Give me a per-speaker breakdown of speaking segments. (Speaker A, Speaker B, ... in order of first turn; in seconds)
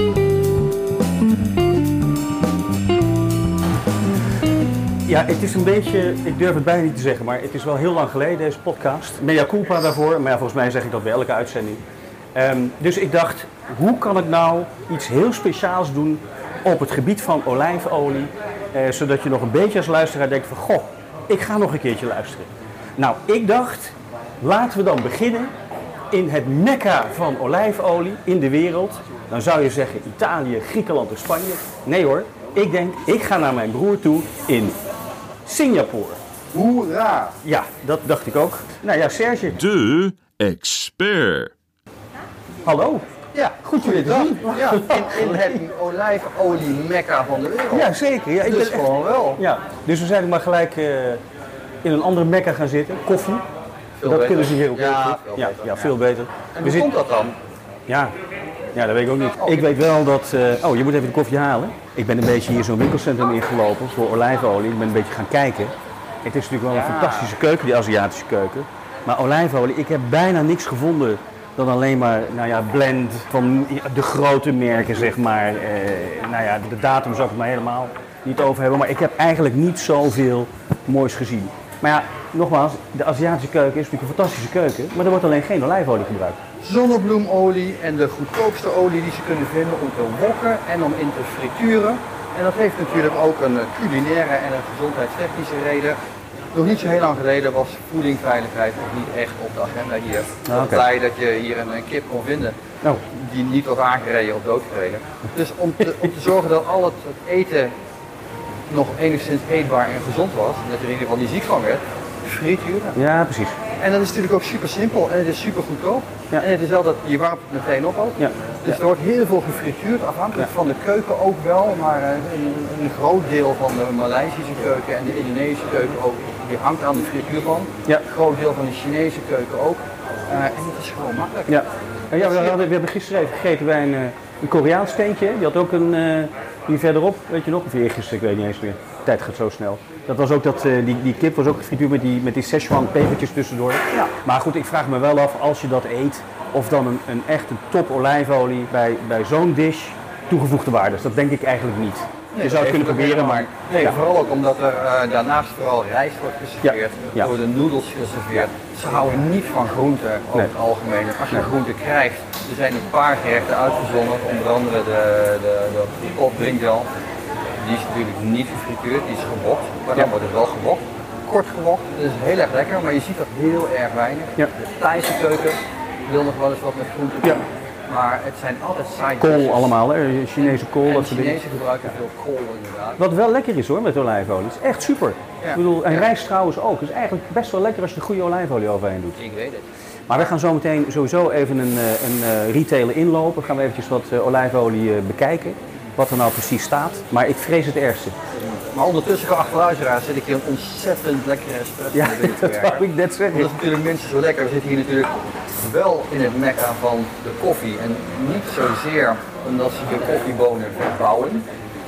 Speaker A: 5.1-11.8, 12.3-25.5, 26.1-34.8, 35.5-36.2, 37.4-39.6, 42.6-43.1, 43.6-45.6, 47.7-51.2, 51.8-53.5, 54.0-56.9, 57.9-58.1, 58.7-86.4, 100.5-100.8, 113.0-113.6, 118.2-118.8, 131.5-154.0, 156.6-157.3, 179.2-181.4, 183.0-189.2, 190.1-198.2, 201.9-203.5
Speaker B: 36.5-37.4, 43.3-49.4, 54.0-55.9, 56.5-57.4, 59.4-59.7, 66.7-67.3, 86.6-96.0, 96.5-107.7, 108.7-113.0, 113.8-132.6, 152.3-166.9, 167.6-179.7, 180.4-183.0, 185.4-186.1, 189.2-190.3, 198.4-211.5
Speaker C: 39.5-41.5